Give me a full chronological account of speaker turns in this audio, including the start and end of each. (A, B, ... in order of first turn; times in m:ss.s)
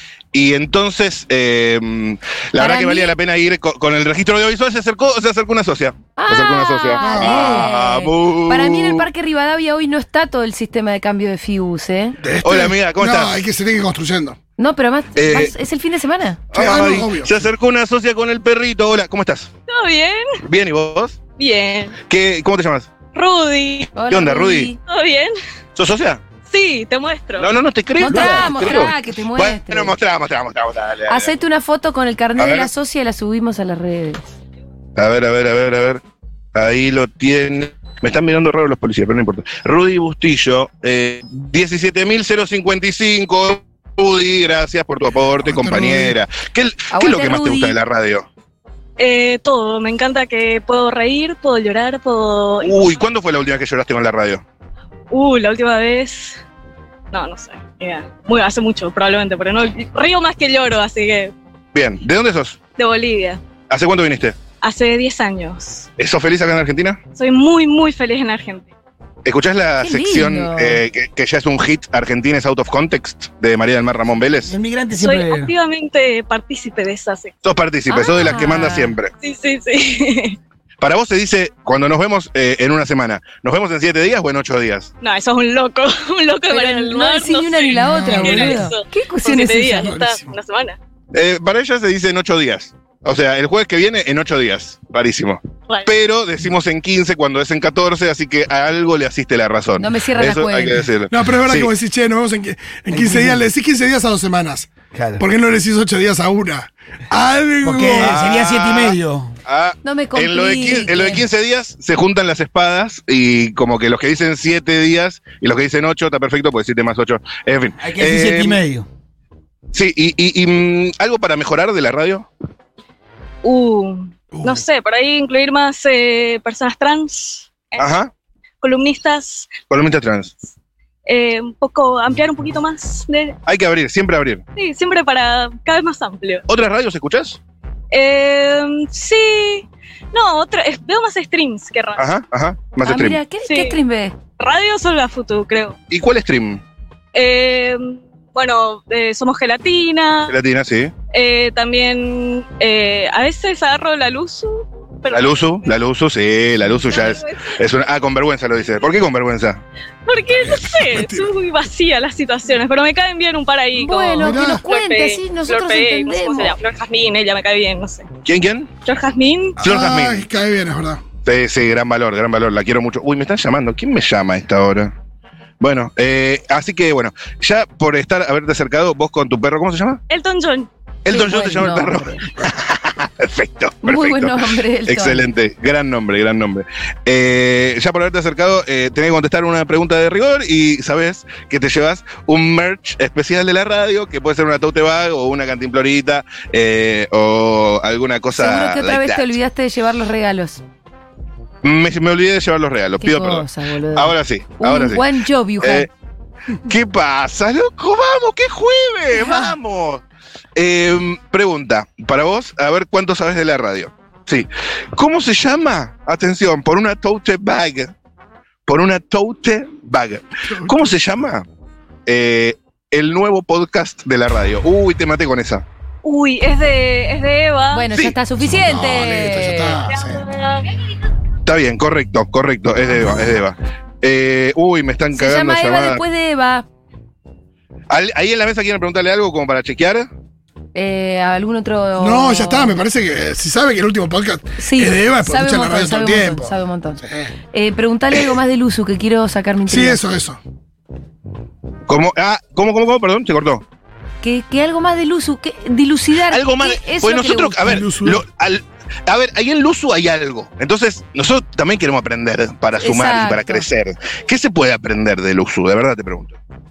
0:00.3-0:09.1 A
0:02.6-0:03.2 B
0:06.2-0:12.2 B
0:07.0-0:07.7 C
0:12.2-0:14.4 C
0:12.4-0:13.4 A
0:14.6-0:16.4 B
0:15.2-0:15.5 A
0:16.5-0:19.5 A
0:16.5-0:17.3 C
0:19.7-0:20.4 D
0:20.5-0:21.2 A
0:21.4-0:22.0 D
0:22.1-0:22.9 A
0:23.1-0:24.0 D
0:24.0-0:24.8 B
0:24.0-0:24.7 A
0:24.8-0:25.3 D
0:25.8-0:26.2 A
0:26.5-0:27.5 D
0:27.4-0:31.3 A
0:28.0-0:30.0 B
0:31.1-0:34.2 B
0:32.4-0:32.7 A
0:35.0-0:36.0 A
0:36.5-0:48.3 A
0:45.4-0:46.2 C
0:46.9-0:47.8 B
0:49.0-0:52.9 D
0:52.6-0:54.4 A
0:55.1-0:56.4 D
0:57.1-1:01.3 D
1:01.7-1:02.6 A
1:02.8-1:03.4 D
1:03.7-1:04.4 A
1:04.6-1:05.9 D
1:06.0-1:07.0 A
1:07.2-1:08.7 D
1:09.2-1:14.5 A
1:09.8-1:10.8 B
1:14.5-1:15.5 E
1:15.0-1:17.3 D
1:17.4-1:19.1 A
1:17.9-1:19.0 B
1:18.0-1:18.4 D
1:19.2-1:20.4 D
1:20.8-1:24.9 A
1:25.0-1:30.8 D
1:26.5-1:29.9 B
1:27.8-1:28.6 C
1:29.8-1:30.3 C
1:31.1-1:41.7 A
1:35.7-1:35.9 D
1:39.8-1:40.8 B
1:41.1-1:48.2 C
1:42.9-1:43.4 E
1:44.9-1:45.2 E
1:47.6-1:49.4 E
1:48.0-1:58.6 A
1:49.8-1:51.2 B
1:57.8-1:58.9 E
1:59.7-2:02.3 A
2:03.4-2:07.9 D
2:04.4-2:04.6 C
2:07.8-2:08.1 A
2:08.6-2:09.6 D
2:09.6-2:10.3 A
2:11.1-2:13.4 D
2:13.5-2:14.4 A
2:14.6-2:16.5 D
2:16.5-2:17.4 A
2:17.9-2:22.1 D
2:22.0-2:23.2 A
2:22.8-2:24.2 B
2:23.4-2:23.8 D
2:24.4-2:25.8 D
2:25.9-2:26.6 A
2:27.1-2:30.4 D
2:30.3-2:30.9 A
2:31.1-2:35.7 D
2:35.1-2:39.6 A
2:36.7-2:37.6 D
2:40.1-2:48.1 D
2:40.4-2:41.3 C
2:43.8-2:46.6 B
2:44.2-2:44.6 C
2:48.2-2:48.7 A
2:48.8-2:49.6 D
2:49.6-2:50.3 A
2:49.6-2:51.0 C
2:51.2-2:54.9 A
2:55.6-3:00.0 A
3:00.1-3:00.7 D
3:01.0-3:19.3 A
3:01.1-3:02.2 B
3:03.8-3:05.3 B
3:18.4-3:20.6 B
3:21.6-3:25.1 A
3:23.0-3:25.9 B
3:25.6-3:25.9 A
3:26.7-3:30.0 A
3:29.1-3:29.5 B
3:30.6-3:37.9 A
3:38.7-3:41.4 A
3:42.1-3:45.6 A
3:46.0-3:47.9 D
3:47.7-3:49.8 B
3:48.4-3:50.2 C
3:49.9-3:50.8 D
3:51.5-3:56.0 A
3:55.1-3:56.7 B
3:57.9-4:00.1 A
4:00.8-4:02.8 B
4:02.0-4:06.5 C
4:04.6-4:07.0 B
4:07.0-4:07.3 C
4:07.5-4:10.0 B
4:09.7-4:10.4 C
4:11.9-4:13.6 A
4:14.2-4:17.7 B
4:16.3-4:26.4 A
4:17.6-4:18.2 C
4:22.8-4:23.6 B